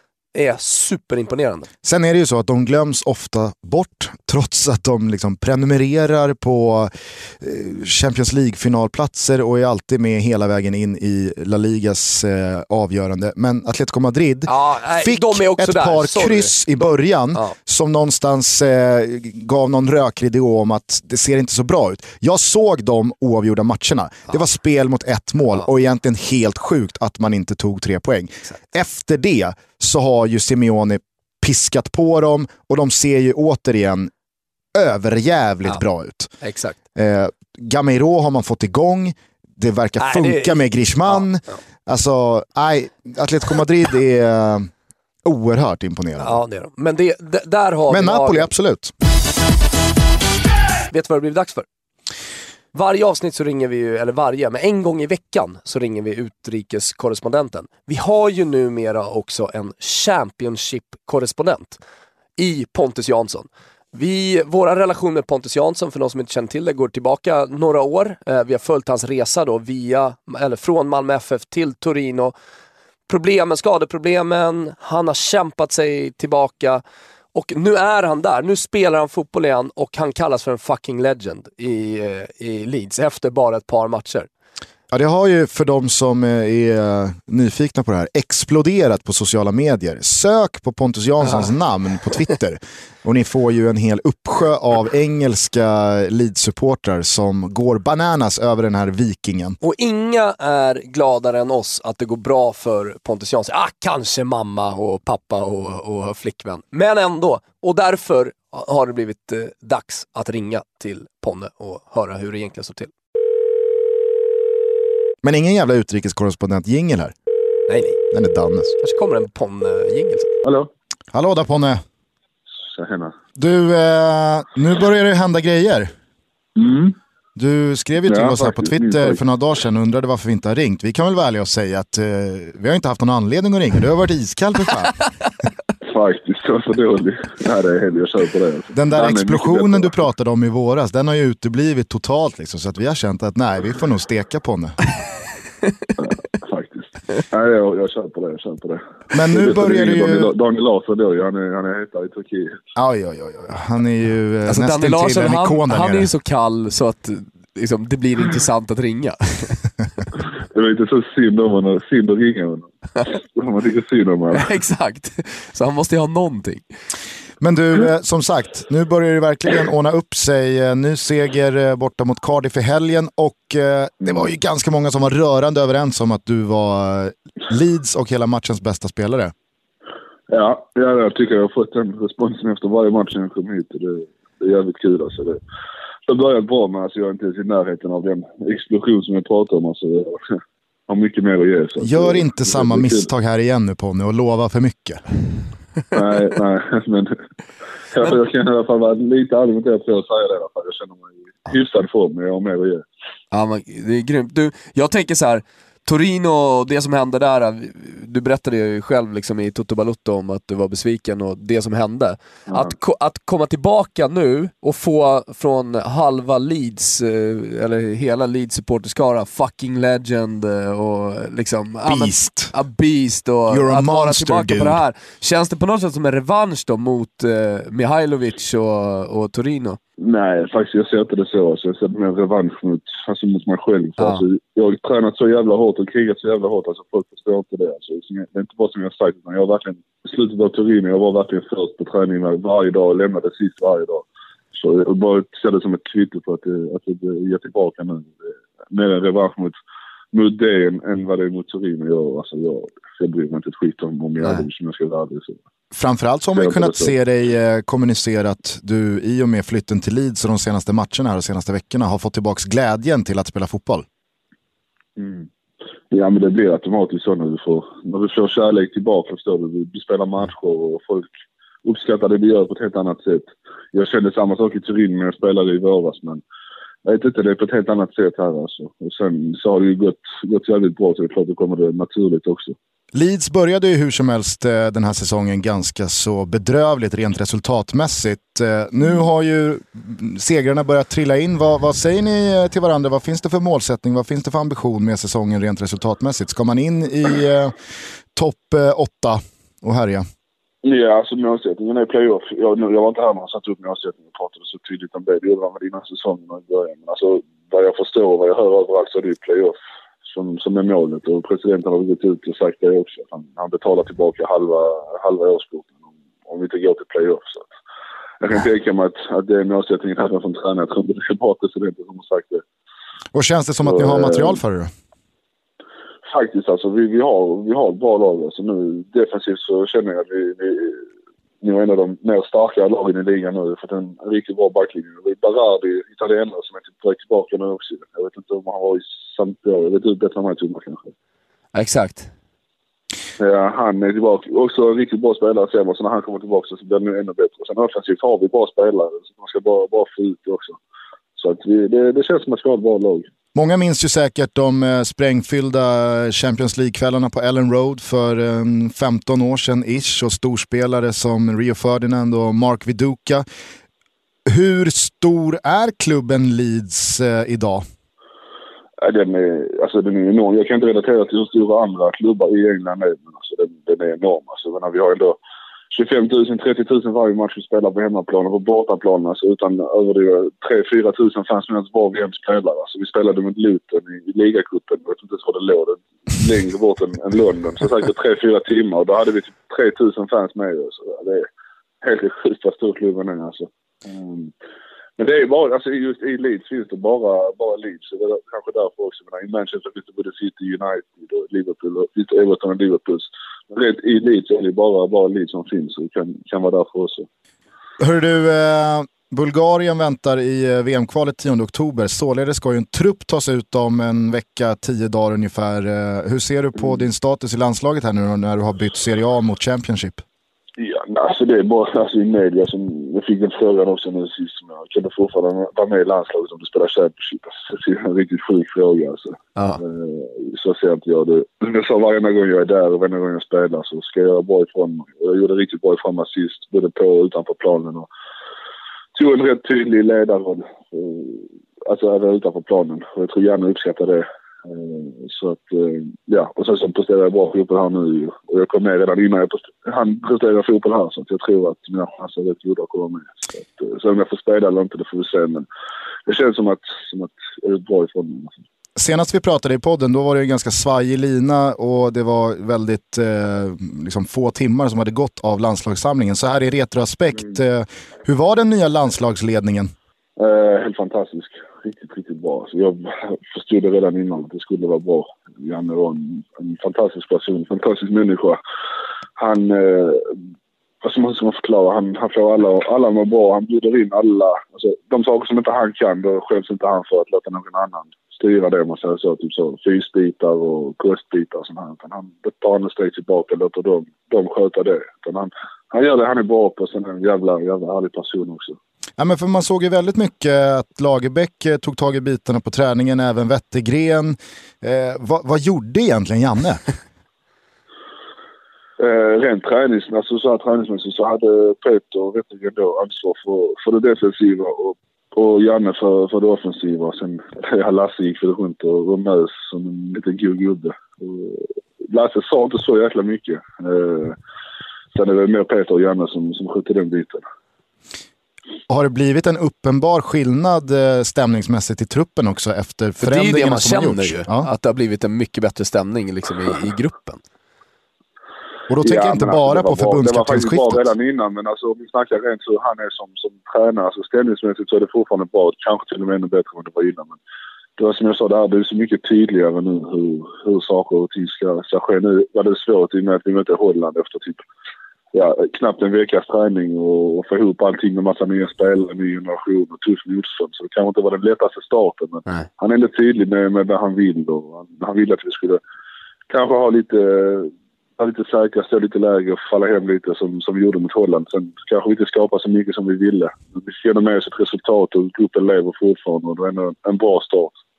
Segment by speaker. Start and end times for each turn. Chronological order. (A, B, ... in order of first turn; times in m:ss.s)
0:00.3-0:01.7 A
0:01.8-0:34.1 B
0:14.5-0:16.5 A
0:34.8-0:36.3 B
0:36.4-0:36.8 A
0:37.0-0:44.7 B
0:40.0-0:41.2 A
0:45.2-0:46.4 B
0:46.2-0:48.5 A
0:47.9-0:48.9 B
0:50.9-0:51.7 A
0:52.7-1:01.8 A
1:02.4-1:12.3 A
1:13.1-1:16.8 A
1:17.3-1:24.3 A
1:24.9-1:39.6 B
1:39.6-1:52.9 A
1:55.2-1:57.1 B
1:57.7-1:58.0 A
1:58.1-1:58.7 B
1:58.8-2:00.4 A
2:00.4-2:00.7 C
2:01.1-2:01.8 B
2:02.7-2:03.2 C
2:03.4-2:05.9 B
2:06.6-2:07.0 C
2:07.4-2:15.0 B
2:08.1-2:09.2 C
2:15.8-2:20.0 C
2:18.8-2:24.8 B
2:26.0-2:32.6 C
2:29.1-2:30.3 B
2:32.8-2:36.1 B
2:34.5-2:39.6 A
2:40.5-2:44.5 C
2:44.3-2:46.6 A
2:47.4-2:59.3 B
3:00.3-3:05.4 C
3:06.1-3:10.4 C
3:10.9-3:13.1 C
3:11.8-3:15.0 B
3:15.9-3:17.2 C
3:17.9-3:22.9 C
3:23.3-3:49.8 A
3:41.9-3:42.5 B
3:43.5-3:44.8 B
3:50.0-4:04.0 C
3:54.0-3:54.2 A
4:04.6-4:09.6 C
4:10.1-4:15.4 C
4:15.7-4:23.9 B
4:16.4-4:16.9 C
4:25.0-4:25.3 C
4:25.9-4:31.1 C
4:31.6-4:36.2 C
4:36.8-4:42.6 C
4:42.9-4:57.6 B
4:58.2-5:00.1 B
5:00.6-5:09.6 C
5:10.1-5:17.5 C
5:18.2-5:22.4 C
5:23.1-5:24.7 B
5:23.6-5:24.4 C
5:26.1-5:30.8 C
5:31.4-5:40.8 C
5:41.5-5:42.1 A
5:43.2-5:50.6 C
5:51.2-5:53.1 C
5:53.4-6:03.2 B
6:04.3-6:07.6 B
6:08.8-6:15.2 C
6:15.7-6:31.3 C
6:31.8-6:34.3 C
6:35.0-6:47.1 C
6:47.8-7:00.0 B
7:00.6-7:17.9 C
7:09.4-7:09.6 A
7:19.0-7:35.5 C
7:36.1-7:38.4 C
7:38.8-7:49.7 B
7:50.2-7:58.4 C
7:59.2-8:00.2 C
8:00.8-8:18.6 C
8:19.0-8:26.6 B
8:28.8-8:44.2 C
8:45.0-8:47.2 C
8:48.7-8:54.5 B
8:53.0-8:57.2 A
8:58.7-9:00.9 B
8:58.8-9:07.2 C
9:07.8-9:14.4 C
9:15.1-9:25.6 C
9:26.3-9:37.6 C